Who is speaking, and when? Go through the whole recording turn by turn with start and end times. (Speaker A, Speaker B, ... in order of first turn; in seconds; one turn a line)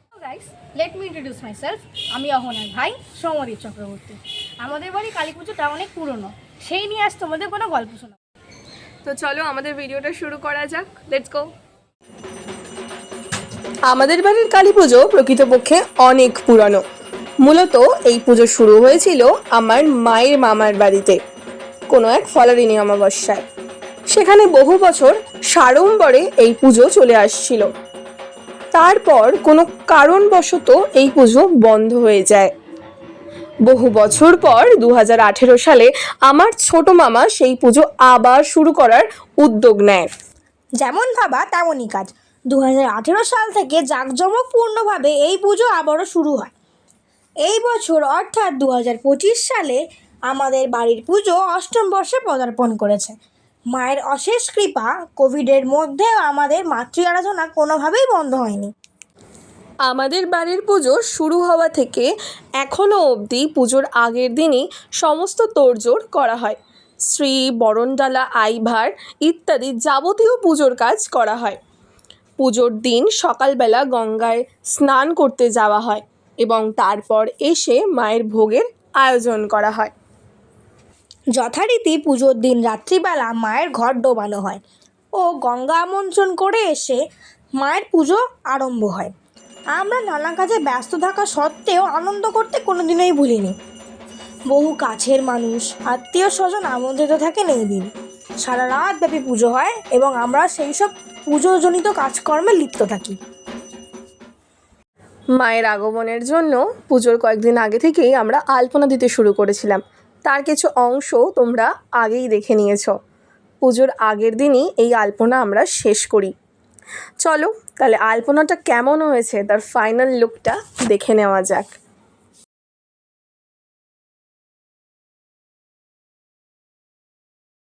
Speaker A: 0.2-8.2
Speaker B: 9.1-11.5
Speaker B: 13.9-16.8
Speaker B: 17.4-21.2
Speaker B: 21.9-23.4
Speaker B: 24.1-27.7
Speaker B: 28.7-32.5
Speaker B: 33.7-40.1
Speaker A: 40.8-46.5
Speaker A: 47.4-53.2
Speaker A: 53.7-58.7
Speaker B: 59.9-62.1
Speaker B: 62.6-66.6
Speaker B: 67.1-71.6
Speaker B: 72.4-79.9
Speaker A: 81.3-84.6
Speaker A: 85.2-87.0
Speaker A: 87.6-89.1
Speaker A: 89.8-93.5
Speaker A: 94.5-97.9
Speaker A: 98.4-103.2
Speaker B: 105.4-112.9
Speaker B: 113.6-116.3
Speaker B: 117.2-121.7